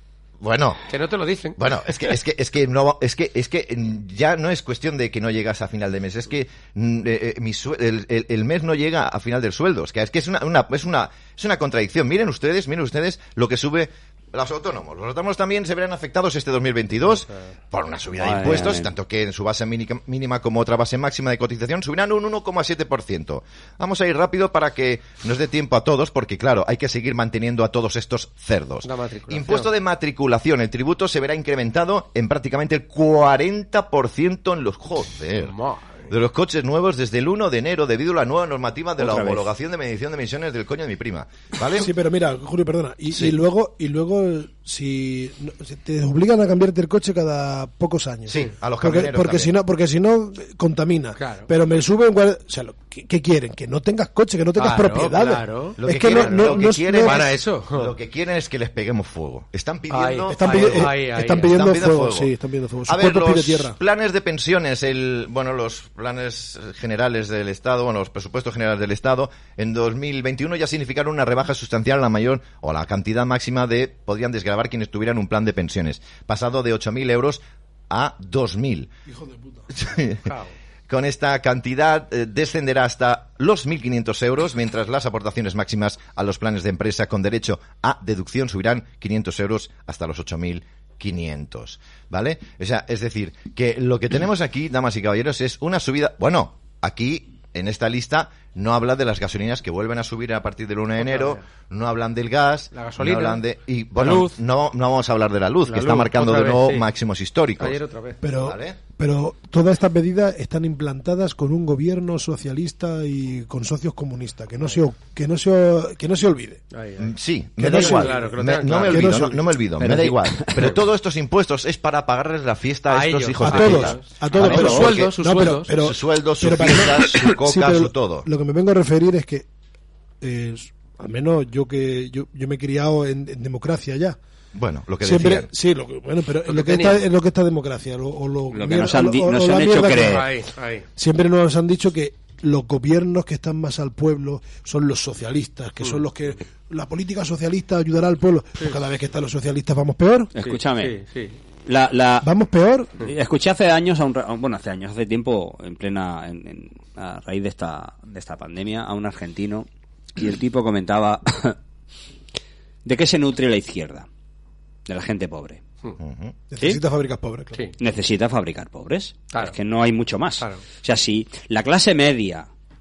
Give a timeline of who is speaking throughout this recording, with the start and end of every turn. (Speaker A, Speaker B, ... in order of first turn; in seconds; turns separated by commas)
Speaker A: 0.4-0.8, Speaker B: 0.9-1.6, Speaker A: 1.6-35.5, Speaker C: 18.2-18.9, Speaker B: 28.8-29.7, Speaker B: 35.4-36.1, Speaker A: 36.1-41.9, Speaker C: 39.0-39.5, Speaker D: 41.8-57.3, Speaker A: 48.3-49.5, Speaker B: 51.2-51.5, Speaker B: 54.6-57.9, Speaker A: 55.8-60.9, Speaker B: 59.9-61.5, Speaker D: 60.3-63.8, Speaker A: 61.4-62.3, Speaker A: 62.9-78.9, Speaker D: 79.1-79.7, Speaker A: 79.7-80.3, Speaker B: 80.3-80.5, Speaker A: 80.9-107.8, Speaker B: 101.0-101.4, Speaker B: 102.7-103.4, Speaker B: 104.0-104.3, Speaker B: 105.6-106.8, Speaker B: 107.6-108.2, Speaker D: 108.2-116.6, Speaker A: 108.4-108.8, Speaker B: 116.7-117.1, Speaker A: 117.0-125.1, Speaker D: 117.6-118.3, Speaker B: 117.6-119.2, Speaker D: 118.8-119.5, Speaker C: 119.8-120.7, Speaker B: 122.9-125.7, Speaker D: 123.4-129.5, Speaker C: 124.4-124.8, Speaker A: 125.8-128.3, Speaker D: 130.2-134.2, Speaker A: 134.5-135.5, Speaker D: 135.0-140.3, Speaker B: 136.5-137.0, Speaker C: 138.5-140.3, Speaker B: 140.0-140.9, Speaker D: 141.0-150.3, Speaker C: 150.3-150.9, Speaker B: 150.4-151.4, Speaker C: 151.7-152.3, Speaker D: 152.2-152.9, Speaker C: 153.0-161.6, Speaker C: 162.8-164.1, Speaker C: 164.9-165.6, Speaker A: 166.0-166.4, Speaker D: 166.5-167.6, Speaker C: 167.8-172.5